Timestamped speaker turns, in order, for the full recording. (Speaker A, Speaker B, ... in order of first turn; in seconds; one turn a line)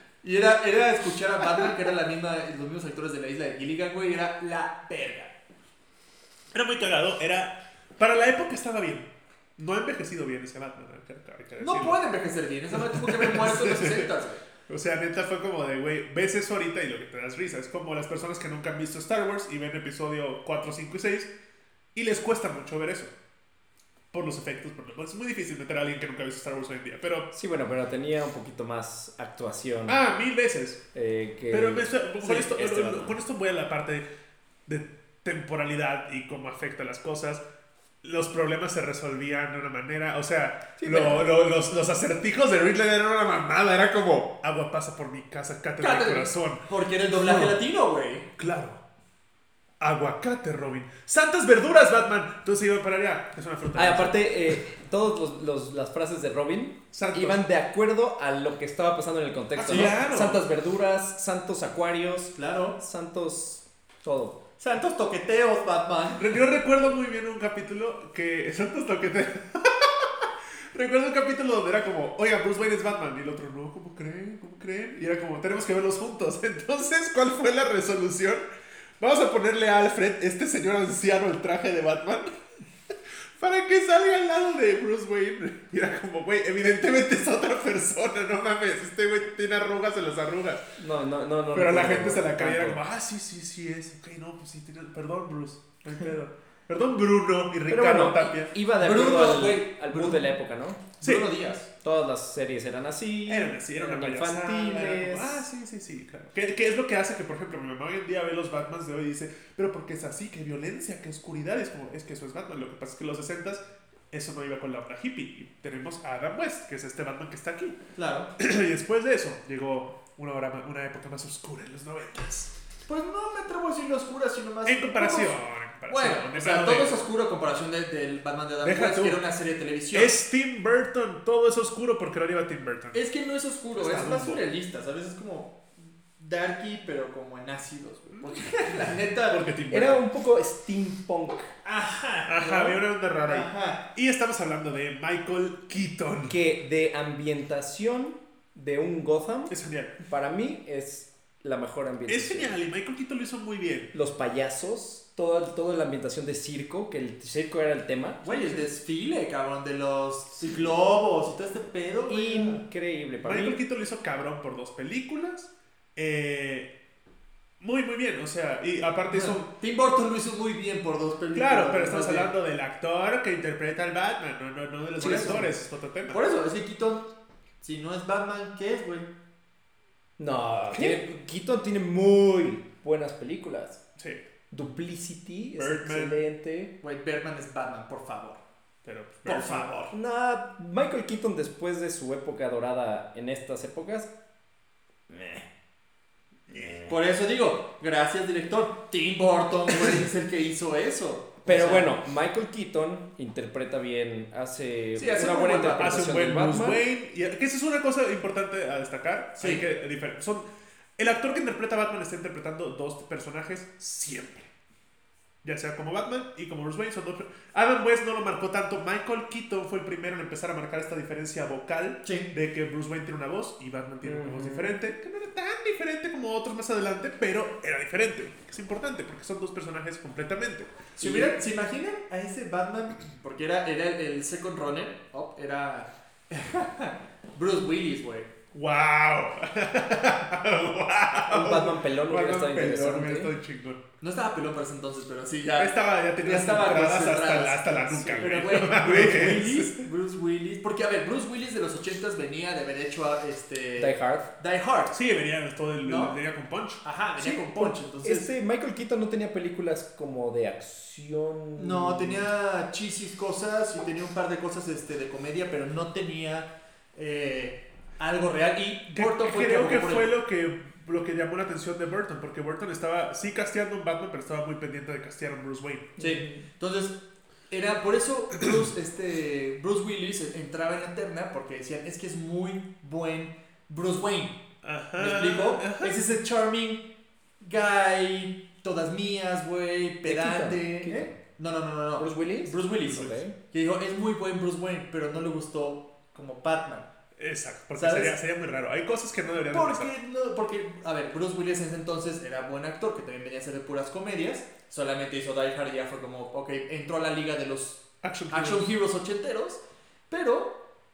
Speaker A: 0.2-5.3
Speaker B: 6.5-12.0
Speaker A: 11.6-14.4
Speaker B: 12.7-14.1
Speaker B: 14.7-21.3
Speaker B: 21.9-23.1
Speaker B: 24.1-27.3
Speaker C: 27.3-30.0
Speaker B: 29.9-30.8
Speaker C: 30.9-33.1
Speaker B: 31.5-34.0
Speaker B: 34.7-37.4
Speaker B: 38.0-47.6
Speaker C: 40.8-41.3
Speaker A: 45.8-48.3
Speaker B: 48.4-48.8
Speaker B: 49.8-54.3
Speaker C: 53.8-64.4
Speaker B: 56.9-57.4
Speaker B: 59.6-60.4
Speaker A: 59.6-60.0
Speaker A: 62.4-62.8
Speaker A: 64.6-66.4
Speaker B: 66.2-78.4
Speaker B: 79.0-82.3
Speaker B: 83.4-90.7
Speaker C: 90.8-92.8
Speaker B: 91.5-98.5
Speaker C: 97.7-100.8
Speaker A: 98.8-100.2
Speaker A: 101.0-101.7
Speaker B: 101.0-101.3
Speaker C: 101.8-105.5
Speaker B: 103.3-117.8
Speaker A: 118.0-118.3
Speaker B: 118.4-122.5
Speaker A: 122.9-125.4
Speaker B: 124.7-127.0
Speaker A: 125.9-130.2
Speaker B: 128.6-129.2
Speaker B: 129.9-133.0
Speaker A: 132.9-135.6
Speaker B: 133.8-134.4
Speaker A: 136.2-139.4
Speaker B: 138.1-140.0
Speaker C: 139.7-141.5
Speaker A: 141.6-143.9
Speaker B: 142.2-146.3
Speaker C: 146.3-149.5
Speaker B: 149.5-150.0
Speaker C: 150.1-152.5
Speaker B: 152.1-153.9
Speaker C: 153.9-158.6
Speaker A: 158.2-162.6
Speaker C: 162.1-163.6
Speaker B: 163.2-166.7
Speaker B: 167.6-169.5
Speaker A: 169.1-172.3
Speaker B: 171.3-176.2
Speaker C: 175.0-175.5
Speaker A: 175.0-175.5
Speaker A: 176.1-177.1
Speaker A: 177.6-179.1
Speaker C: 180.2-183.8
Speaker B: 184.0-184.2
Speaker C: 184.5-186.7
Speaker B: 185.6-186.2
Speaker A: 186.8-188.4
Speaker B: 188.8-189.8
Speaker A: 189.2-189.9
Speaker C: 189.9-194.1
Speaker C: 195.1-195.4
Speaker C: 196.5-196.9
Speaker A: 196.9-201.9
Speaker C: 201.4-206.8
Speaker A: 204.9-205.9
Speaker B: 205.6-210.4
Speaker A: 209.4-209.7
Speaker B: 211.0-214.5
Speaker B: 215.4-231.3
Speaker A: 222.0-222.3
Speaker C: 224.0-224.8
Speaker A: 231.0-238.3
Speaker B: 238.5-243.8
Speaker C: 241.3-243.3
Speaker A: 244.0-254.9
Speaker B: 245.6-249.8
Speaker C: 247.9-248.3
Speaker C: 253.8-254.3
Speaker B: 254.9-256.8
Speaker A: 255.8-256.2
Speaker A: 256.8-258.3
Speaker C: 257.2-262.3
Speaker A: 261.6-270.1
Speaker B: 268.9-275.9
Speaker A: 276.0-277.0
Speaker C: 276.0-276.4
Speaker A: 277.5-284.4
Speaker B: 284.6-285.9
Speaker A: 285.0-286.9
Speaker A: 287.4-296.9
Speaker C: 290.0-291.1
Speaker C: 292.0-293.4
Speaker B: 297.2-299.9
Speaker A: 297.8-298.2
Speaker A: 299.5-310.6
Speaker B: 308.0-308.7